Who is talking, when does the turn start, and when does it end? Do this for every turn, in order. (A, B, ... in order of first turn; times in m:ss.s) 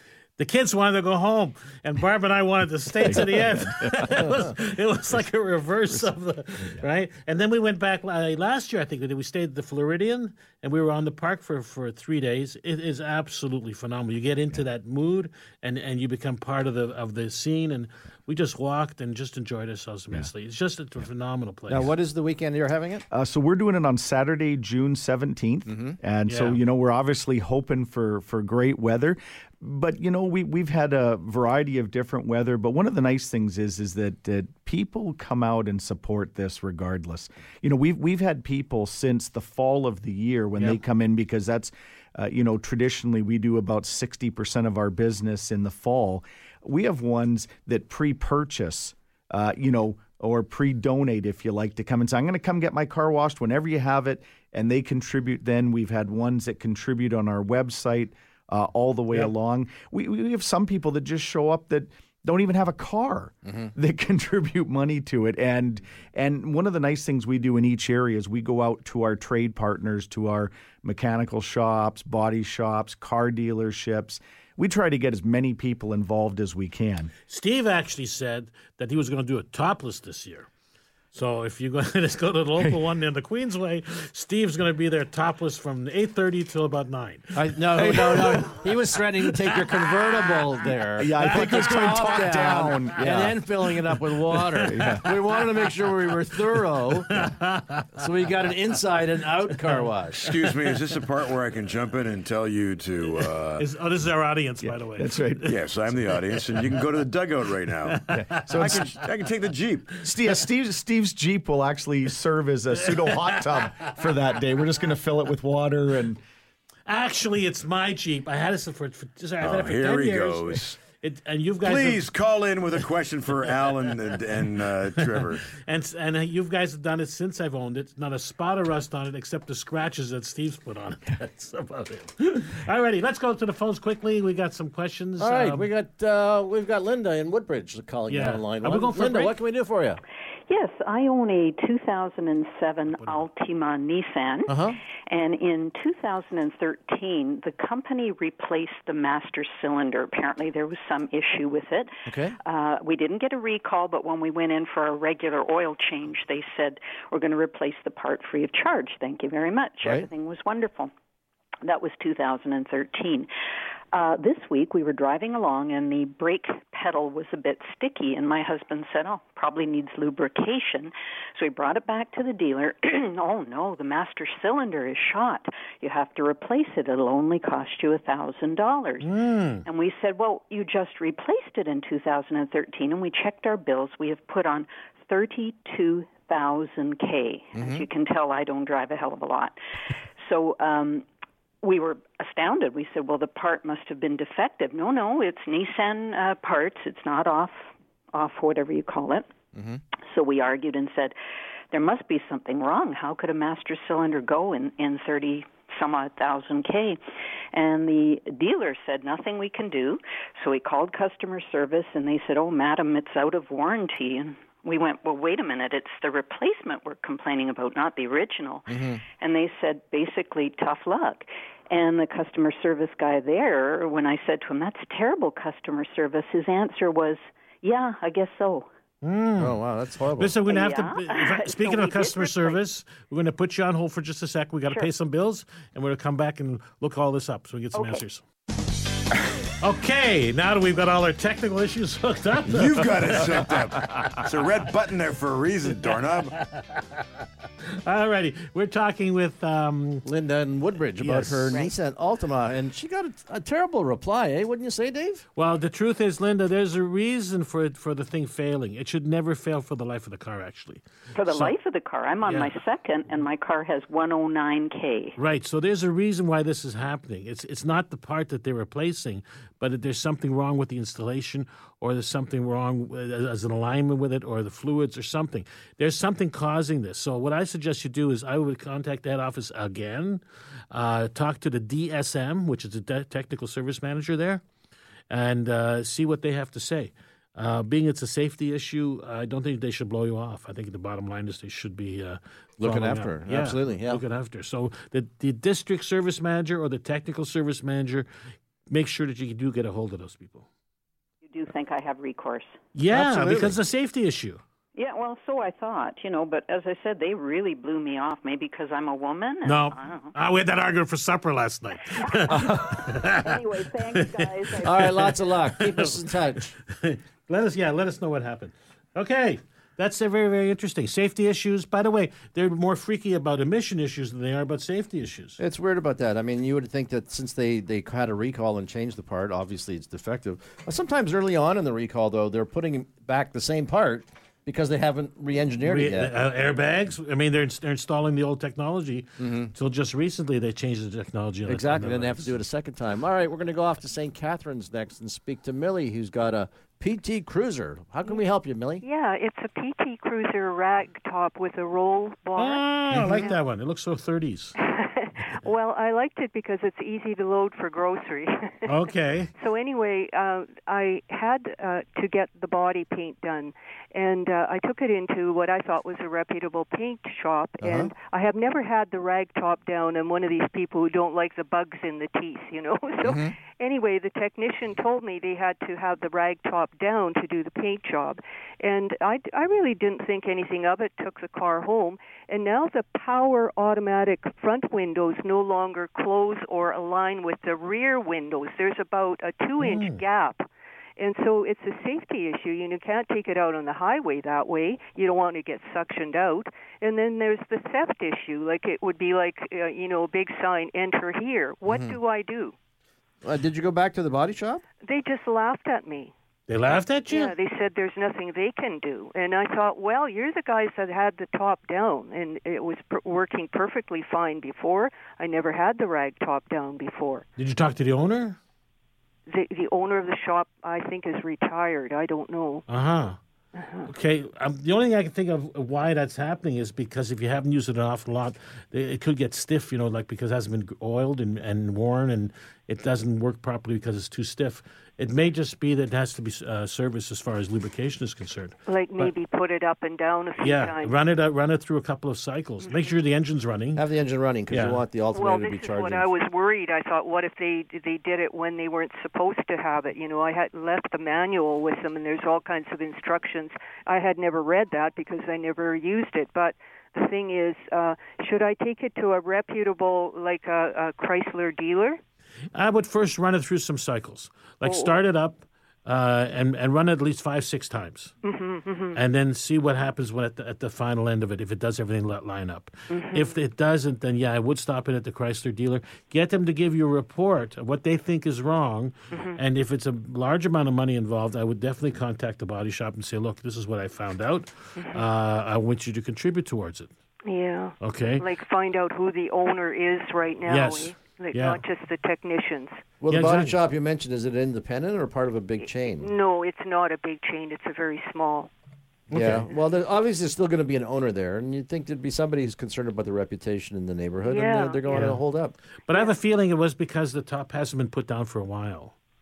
0:00.4-0:21.9 A
0:03.0-0:04.4 B
0:21.7-0:23.0 C
0:23.1-1:17.1 B
0:25.7-0:26.0 C
0:26.3-0:26.6 A
1:03.5-1:03.7 C
1:17.3-1:20.5 A
1:21.1-1:28.6 A
1:27.4-1:37.2 C
1:27.8-1:28.5 B
1:31.0-1:33.4 B
1:31.2-1:32.3 A
1:34.4-1:35.0 A
1:34.6-1:35.1 B
1:37.1-1:38.0 A
1:38.0-1:40.3 C
1:40.2-1:43.7 D
1:43.6-1:45.5 A
1:44.6-1:45.6 B
1:45.4-1:50.0 D
1:47.9-1:48.9 A
1:48.1-1:48.9 B
1:50.0-1:56.2 B
1:56.9-2:02.0 A
1:59.4-2:00.8 D
2:01.6-2:05.4 D
2:05.0-2:15.7 A
2:15.2-2:20.0 C
2:18.1-2:19.3 A
2:20.5-2:40.9 E
2:22.9-2:23.2 A
2:24.5-2:24.8 C
2:32.1-2:32.4 C
2:41.6-2:43.3 E
2:43.9-2:59.1 E
2:59.0-2:59.6 A
2:59.6-3:09.6 E
3:07.6-3:07.8 C
3:10.2-3:11.1 E
3:11.6-3:19.3 E
3:19.5-3:19.8 C
3:20.1-3:21.2 E
3:21.7-3:27.0 E
3:27.5-3:48.7 E
3:38.7-3:39.0 C
3:49.0-3:49.6 A
3:49.4-3:50.4 C
3:50.2-3:58.2 A
3:50.5-3:52.6 E
3:57.7-3:58.0 E
3:59.6-4:03.5 A
4:02.5-4:06.4 D
4:06.4-4:07.1 A
4:07.6-4:10.1 A
4:10.0-4:15.2 C
4:11.0-4:11.6 A
4:15.4-4:21.5 A
4:21.2-4:25.2 E
4:22.3-4:22.5 A
4:25.2-4:44.4 A
4:45.1-4:58.1 A
4:52.6-4:54.0 C
4:58.7-5:00.5 A
5:01.2-5:02.6 E
5:02.8-5:04.4 A
5:02.9-5:03.5 C
5:04.8-5:10.2 E
5:09.4-5:16.0 A
5:13.3-5:13.8 E
5:14.6-5:16.6 C
5:16.7-5:25.4 A
5:25.4-5:36.1 C
5:35.6-5:42.4 A
5:39.2-5:39.5 C
5:41.5-5:48.8 C
5:48.8-5:53.4 F
5:52.4-5:54.6 A
5:54.6-5:58.7 F
5:58.7-5:59.3 A
5:59.4-6:30.5 F
6:07.6-6:07.9 C
6:13.0-6:13.4 C
6:29.6-6:30.0 A
6:31.0-6:42.6 F
6:41.7-6:42.0 C
6:43.2-6:44.6 C
6:44.8-6:46.1 F
6:46.5-6:47.3 A
6:47.1-6:57.2 F
6:57.4-6:58.4 A
6:59.3-7:02.6 F
7:02.7-7:03.2 A
7:03.6-7:03.9 F
7:03.9-7:19.1 A
7:18.7-7:21.0 F
7:20.4-7:23.8 A
7:22.6-7:22.9 F
7:23.8-7:26.1 C
7:24.5-7:24.8 A
7:25.1-7:42.0 F
7:42.5-7:48.1 A
7:44.6-7:45.0 F
7:48.2-7:49.0 F
7:49.0-8:06.9 A
7:52.9-7:53.3 F
7:59.1-7:59.4 F
8:07.3-8:12.8 F
8:07.8-8:08.2 A
8:10.5-8:11.6 A
8:13.0-8:16.1 C
8:13.1-8:13.6 A
8:15.6-8:18.5 F
8:19.1-8:19.5 A
8:19.1-8:25.6 C
8:24.3-8:25.2 F
8:24.9-8:25.2 A
8:25.9-8:28.9 A